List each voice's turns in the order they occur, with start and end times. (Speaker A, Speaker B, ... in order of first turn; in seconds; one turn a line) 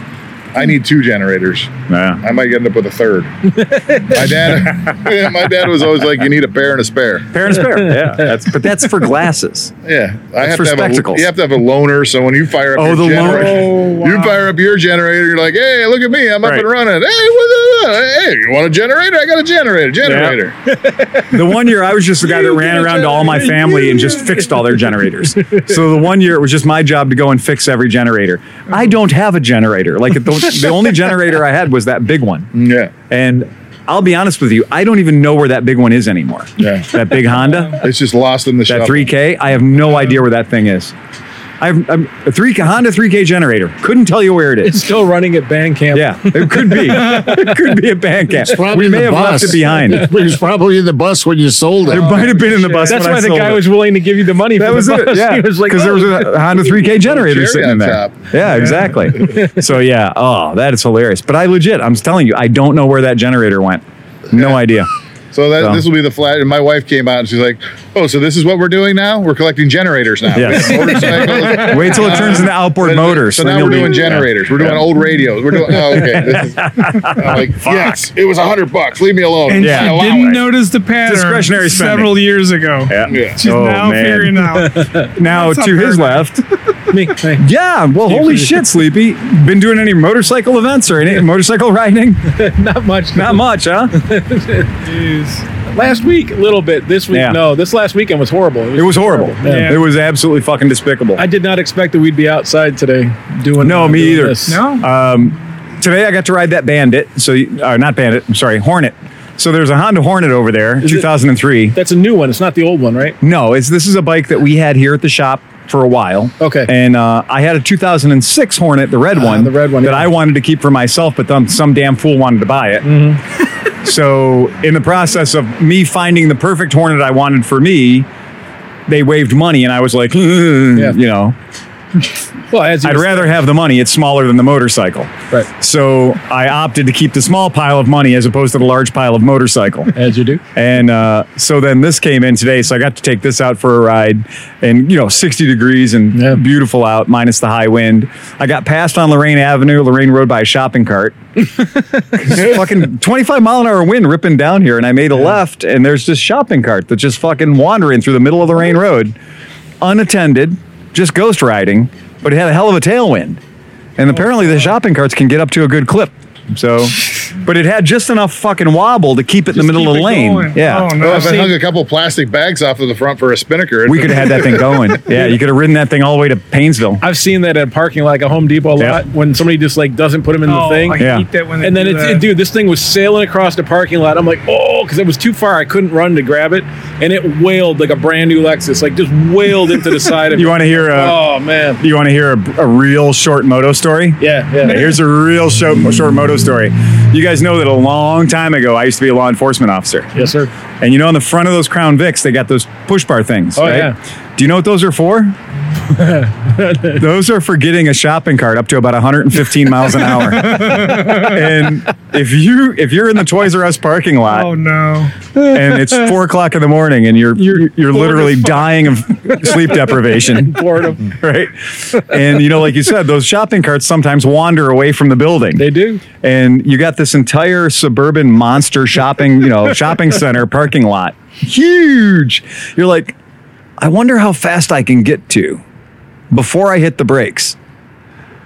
Speaker A: 0.5-7.3
Speaker B: 1.9-2.2
Speaker C: 3.6-4.2
Speaker B: 7.3-9.7
Speaker A: 9.8-20.6
Speaker B: 10.4-11.2
Speaker B: 12.8-13.7
Speaker D: 13.5-14.3
Speaker C: 13.6-13.9
Speaker B: 20.0-20.4
Speaker C: 20.7-21.4
Speaker B: 21.3-32.5
Speaker C: 22.2-24.8
Speaker C: 25.4-25.7
Speaker A: 32.5-32.9
Speaker B: 33.1-37.8
Speaker A: 36.6-36.9
Speaker A: 37.8-39.1
Speaker B: 38.7-40.9
Speaker B: 41.6-44.8
Speaker C: 44.6-47.4
Speaker B: 45.9-50.1
Speaker E: 48.4-52.3
Speaker B: 51.9-53.6
Speaker D: 52.1-52.9
Speaker C: 52.3-56.7
Speaker B: 54.6-64.9
Speaker A: 56.9-58.3
Speaker C: 59.1-59.5
Speaker A: 65.3-80.3
Speaker B: 65.6-65.8
Speaker B: 70.3-74.9
Speaker B: 75.5-78.0
Speaker D: 79.5-86.4
Speaker B: 79.6-80.4
Speaker B: 81.0-82.1
Speaker B: 82.9-84.4
Speaker A: 83.1-83.4
Speaker C: 84.6-85.1
Speaker B: 85.2-86.4
Speaker C: 86.9-87.5
Speaker B: 87.4-92.3
Speaker C: 88.0-88.6
Speaker C: 92.3-94.9
Speaker B: 93.1-94.0
Speaker D: 94.9-95.4
Speaker C: 95.7-99.8
Speaker B: 97.1-97.4
Speaker B: 98.8-101.2
Speaker D: 99.4-99.8
Speaker C: 101.2-104.6
Speaker B: 103.6-111.8
Speaker D: 104.5-104.9
Speaker C: 111.7-113.2
Speaker B: 113.2-123.1
Speaker C: 116.4-116.7
Speaker C: 119.1-120.1
Speaker C: 122.8-123.2
Speaker B: 123.8-128.1
Speaker B: 128.9-131.3
Speaker C: 132.5-133.3
Speaker B: 132.8-139.9
Speaker C: 139.9-140.4
Speaker B: 140.5-151.2
Speaker C: 146.1-146.4
Speaker B: 152.2-159.1
Speaker B: 159.8-163.4
Speaker B: 164.0-171.4
Speaker D: 169.5-171.6
Speaker A: 171.0-174.8
Speaker B: 173.8-177.0
Speaker C: 177.0-181.0
Speaker D: 180.4-182.3
Speaker B: 181.0-181.2
Speaker C: 181.6-191.8
Speaker B: 190.3-191.2
Speaker B: 191.8-200.1
Speaker C: 194.2-194.9
Speaker D: 194.7-194.9
Speaker C: 200.1-200.5
Speaker B: 200.8-205.3
Speaker C: 203.6-203.9
Speaker C: 205.9-207.0
Speaker B: 206.9-214.5
Speaker D: 210.1-211.5
Speaker D: 214.3-215.1
Speaker C: 215.4-215.9
Speaker B: 215.5-225.7
Speaker C: 217.4-218.6
Speaker C: 219.2-221.1
Speaker C: 225.6-226.0
Speaker B: 226.2-233.1
Speaker B: 233.8-235.6
Speaker B: 236.3-237.6